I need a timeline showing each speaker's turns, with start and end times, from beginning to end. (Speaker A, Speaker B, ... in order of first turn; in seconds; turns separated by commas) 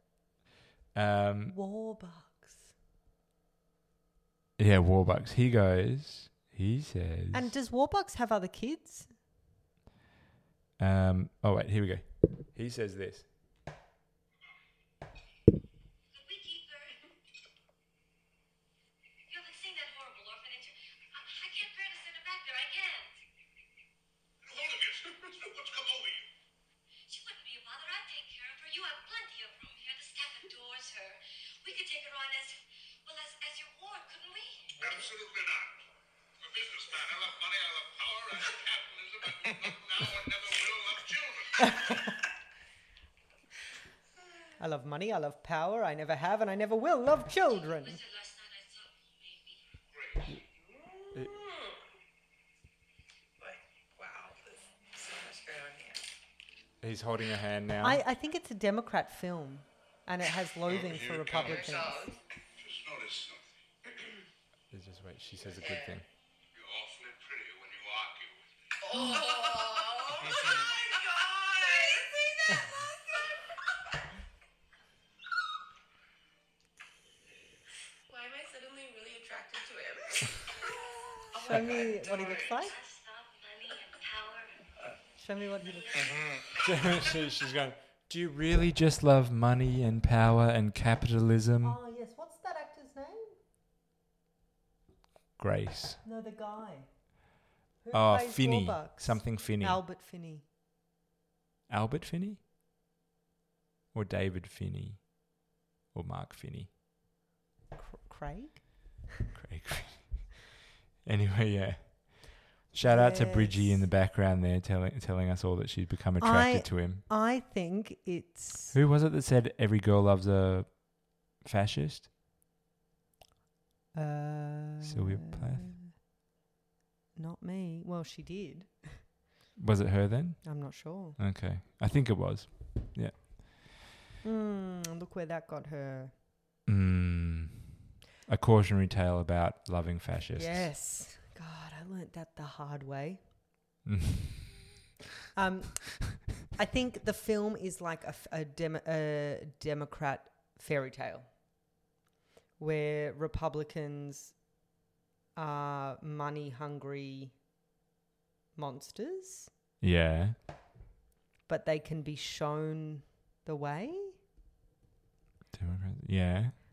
Speaker A: 0.9-1.6, Speaker B: 1.5-2.7, Speaker A: 4.6-7.5, Speaker B: 7.3-9.1, Speaker A: 10.8-13.3, Speaker C: 16.1-17.1, Speaker C: 19.3-23.2, Speaker D: 24.4-26.3, Speaker C: 27.1-34.8, Speaker D: 34.8-35.8, Speaker D: 36.4-42.0, Speaker B: 41.6-42.1, Speaker B: 44.6-48.0, Speaker C: 47.7-49.6, Speaker D: 49.9-50.4, Speaker E: 50.9-51.8, Speaker E: 53.4-56.1, Speaker A: 56.8-58.0, Speaker B: 57.8-62.2, Speaker D: 60.8-61.6, Speaker E: 61.4-62.1, Speaker D: 62.6-63.6, Speaker A: 64.7-66.1, Speaker E: 65.6-66.0, Speaker D: 66.5-68.5, Speaker E: 68.8-72.7, Speaker D: 70.3-70.7, Speaker E: 78.1-80.7, Speaker E: 81.3-82.5, Speaker B: 81.3-82.8, Speaker C: 82.5-84.6, Speaker B: 85.2-86.2, Speaker C: 85.8-86.2, Speaker A: 86.6-91.8, Speaker B: 91.6-93.4, Speaker A: 95.4-96.0, Speaker B: 96.0-97.2, Speaker B: 97.8-100.4, Speaker A: 97.9-99.8, Speaker A: 101.7-102.4, Speaker A: 103.9-106.7, Speaker B: 107.8-109.1, Speaker A: 109.3-110.5, Speaker A: 111.0-117.0, Speaker B: 112.8-113.8, Speaker B: 116.2-118.8, Speaker A: 118.7-122.1, Speaker B: 123.9-125.9, Speaker A: 124.8-125.8, Speaker B: 127.2-129.1, Speaker A: 129.6-133.4, Speaker B: 130.4-131.2, Speaker B: 134.2-136.1, Speaker A: 136.7-137.7, Speaker A: 138.3-140.7, Speaker B: 140.3-143.3, Speaker A: 143.8-144.5, Speaker B: 145.3-151.4, Speaker B: 152.6-154.6, Speaker B: 155.3-157.4, Speaker B: 158.6-159.5, Speaker A: 159.8-160.4, Speaker B: 161.5-164.2, Speaker A: 165.5-166.6